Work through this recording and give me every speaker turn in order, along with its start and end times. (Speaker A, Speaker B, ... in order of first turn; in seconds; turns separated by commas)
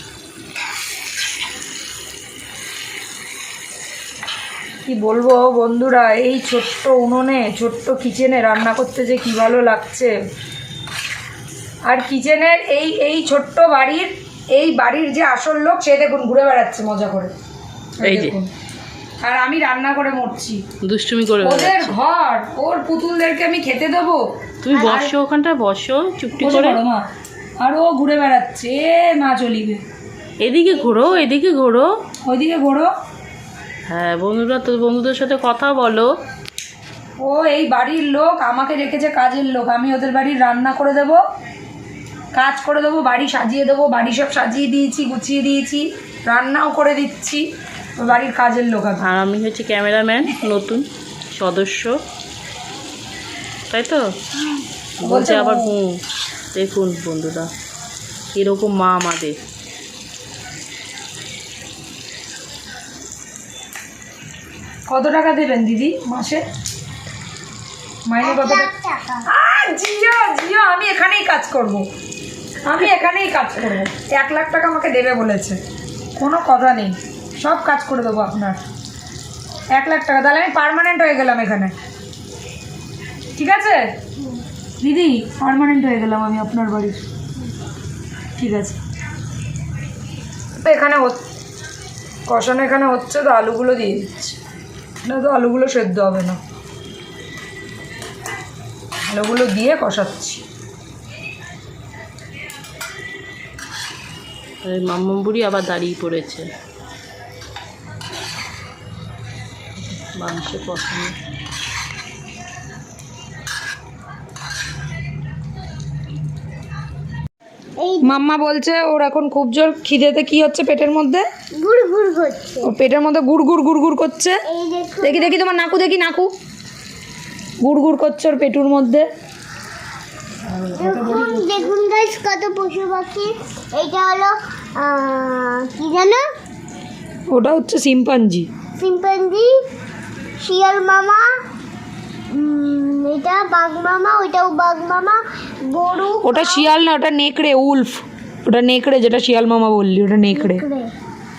Speaker A: 4.9-10.2, Speaker A: 11.9-17.3, Speaker A: 18.0-18.5, Speaker B: 18.0-18.4, Speaker A: 19.2-20.6, Speaker B: 20.8-22.0, Speaker A: 21.4-24.2, Speaker B: 24.6-26.8, Speaker C: 24.8-25.1, Speaker A: 26.4-27.1, Speaker A: 27.6-29.8, Speaker B: 30.4-32.0, Speaker A: 32.2-32.9, Speaker B: 33.9-36.1, Speaker A: 37.2-41.2, Speaker A: 42.4-47.5, Speaker A: 48.0-49.1, Speaker B: 49.0-52.0, Speaker B: 53.7-54.2, Speaker B: 55.0-57.5, Speaker A: 55.0-55.7, Speaker B: 58.4-59.4, Speaker A: 64.9-66.5, Speaker A: 68.1-68.7, Speaker C: 68.2-69.3, Speaker A: 69.3-71.9, Speaker A: 72.7-75.6, Speaker A: 76.2-78.7, Speaker A: 79.7-81.8, Speaker A: 83.4-84.0, Speaker A: 84.8-87.0, Speaker A: 88.4-88.8, Speaker A: 90.6-91.2, Speaker A: 92.3-94.4, Speaker A: 95.0-96.4, Speaker A: 99.1-100.4, Speaker B: 104.6-106.5, Speaker B: 109.8-111.2, Speaker C: 117.8-118.2, Speaker A: 118.0-121.3, Speaker C: 121.5-122.7, Speaker A: 122.6-124.4, Speaker C: 124.5-125.4, Speaker A: 125.0-126.3, Speaker A: 127.6-129.1, Speaker A: 130.5-131.7, Speaker C: 130.7-136.3, Speaker A: 137.3-138.5, Speaker C: 138.8-139.6, Speaker C: 140.4-141.4, Speaker C: 142.3-146.7, Speaker A: 146.2-150.6, Speaker C: 150.3-150.9